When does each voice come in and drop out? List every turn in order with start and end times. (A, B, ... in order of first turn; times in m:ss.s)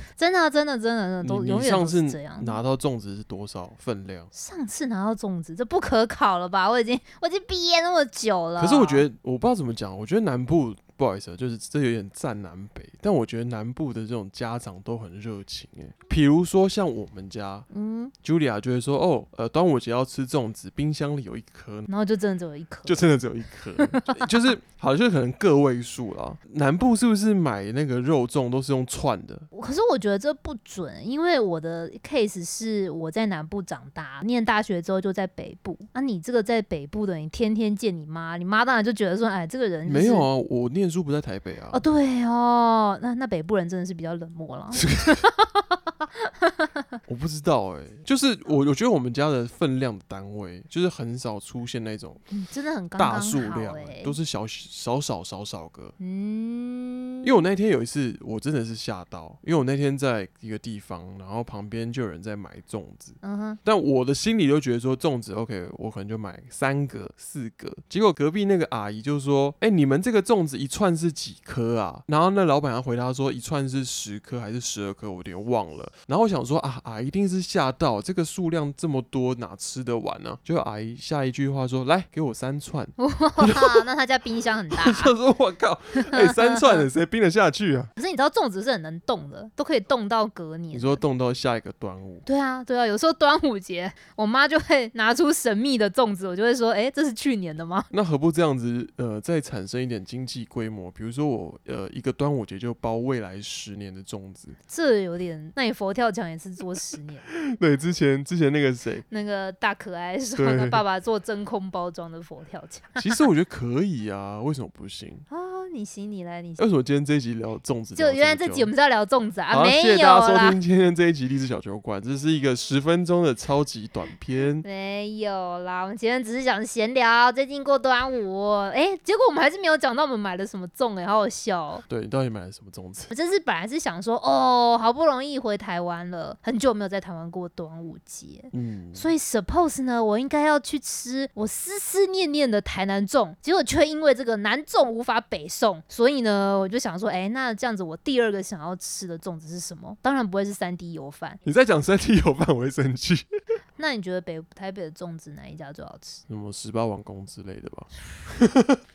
0:00.2-0:02.6 A
0:01.2-0:04.3 B
0:04.3-0:09.0 A
0:08.6-0:17.7 B
0:17.7-0:18.1 A
0:18.2-0:21.9 B
0:21.9-0:23.1 A
0:22.9-0:29.5 B
0:23.8-0:24.3 A
0:29.5-0:40.3 A
0:39.9-0:41.8 B
0:41.7-0:46.8 A
0:44.8-0:45.2 B
0:47.1-0:52.2 B
0:52.3-0:54.2 A
0:53.0-0:56.0 B
0:56.0-0:57.4 A
0:57.2-1:23.9 B
1:03.2-1:03.6 A
1:23.0-1:25.1 A
1:24.7-1:27.9 B
1:26.0-1:26.9 A
1:28.0-1:31.0 A
1:30.7-1:32.2 B
1:32.3-1:37.9 A
1:37.9-1:44.6 B
1:44.7-1:47.3 A
1:47.3-1:49.0 B
1:49.1-1:53.0 A
1:50.4-1:50.8 B
1:53.0-1:55.3 B
1:55.3-1:56.6 A
1:56.6-1:58.7 B
1:58.0-2:00.6 A
1:59.5-2:04.6 B
2:04.6-2:11.8 A
2:11.9-2:13.1 B
2:13.1-2:31.4 A
2:18.5-2:19.1 B
2:31.4-2:33.3 B
2:33.8-2:36.2 A
2:36.3-2:38.8 B